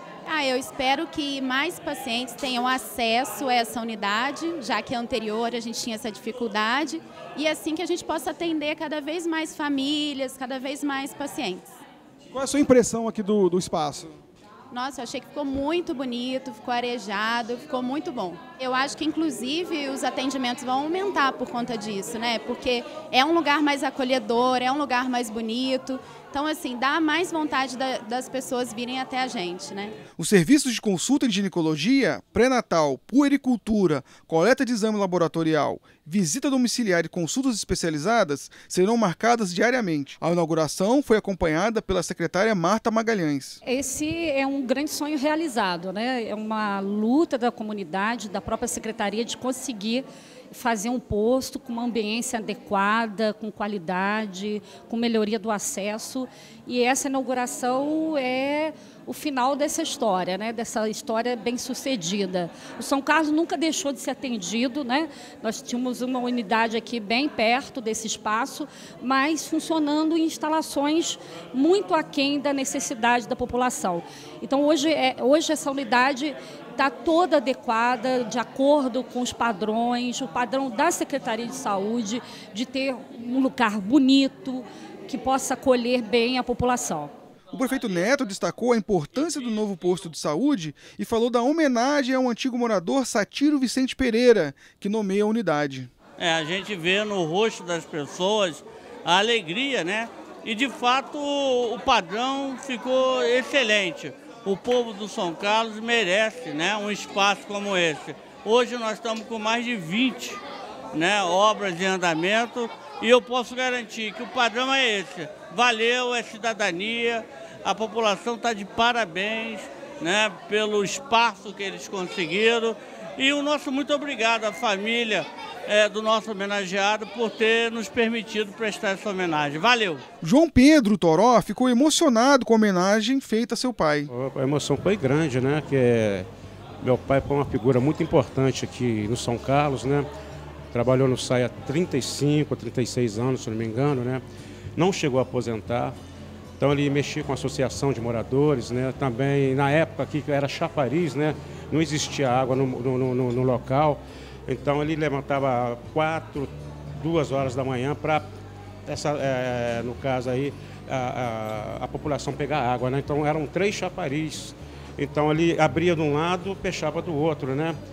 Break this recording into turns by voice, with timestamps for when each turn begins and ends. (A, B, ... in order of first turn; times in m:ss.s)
0:00.2-0:11.7 A
0:12.3-0:14.1 B
0:14.7-0:30.0 A
0:30.2-0:43.6 B
0:43.6-1:27.1 C
1:27.5-1:35.9 B
1:36.2-1:50.4 D
1:50.9-2:10.0 D
2:10.2-2:14.1 B
2:14.2-2:16.2 E
2:16.8-2:20.0 E
2:20.7-2:24.2 E
2:24.8-2:25.9 E
2:26.6-2:34.0 E
2:34.5-2:36.4 E
2:37.0-2:38.2 E
2:38.9-2:44.3 E
2:45.1-2:47.7 E